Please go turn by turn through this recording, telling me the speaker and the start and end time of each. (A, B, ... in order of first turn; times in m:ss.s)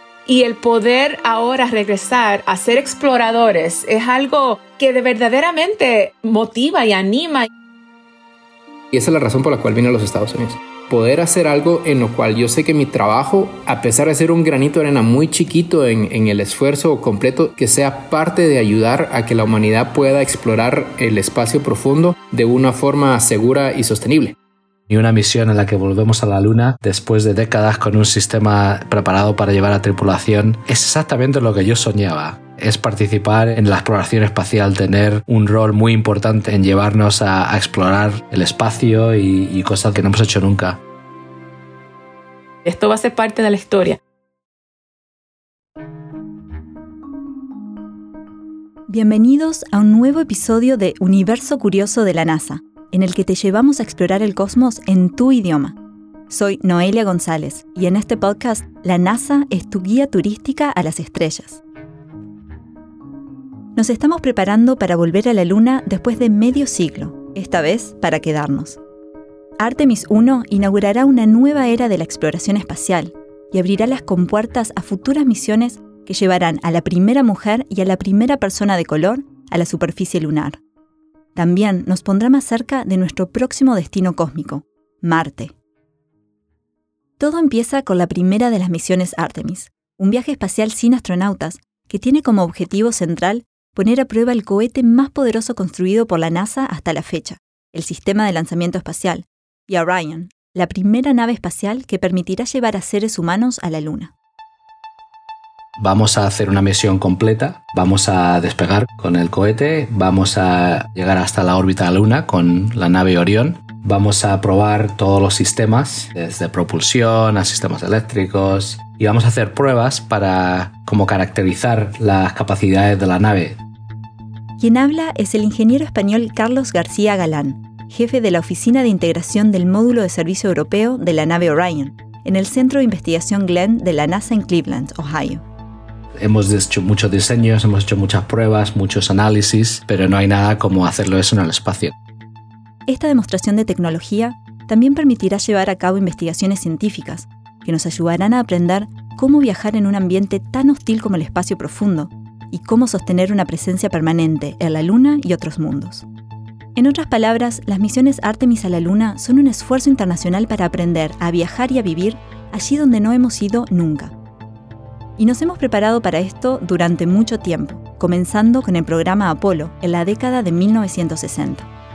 0:00.2-0:07.5 A
0:08.9-0:24.3 B
0:24.9-0:40.8 C
0:42.6-0:44.0 A
0:48.9-0:55.8 D
0:56.3-1:01.6 D
1:03.7-1:08.8 D
1:09.6-1:20.6 D
1:21.3-1:25.5 D
1:27.2-1:44.1 D
1:45.8-2:03.6 C
2:04.6-2:15.4 D
2:16.2-2:21.9 C
2:22.9-2:36.0 D
2:36.7-2:44.1 D
2:45.2-2:51.7 D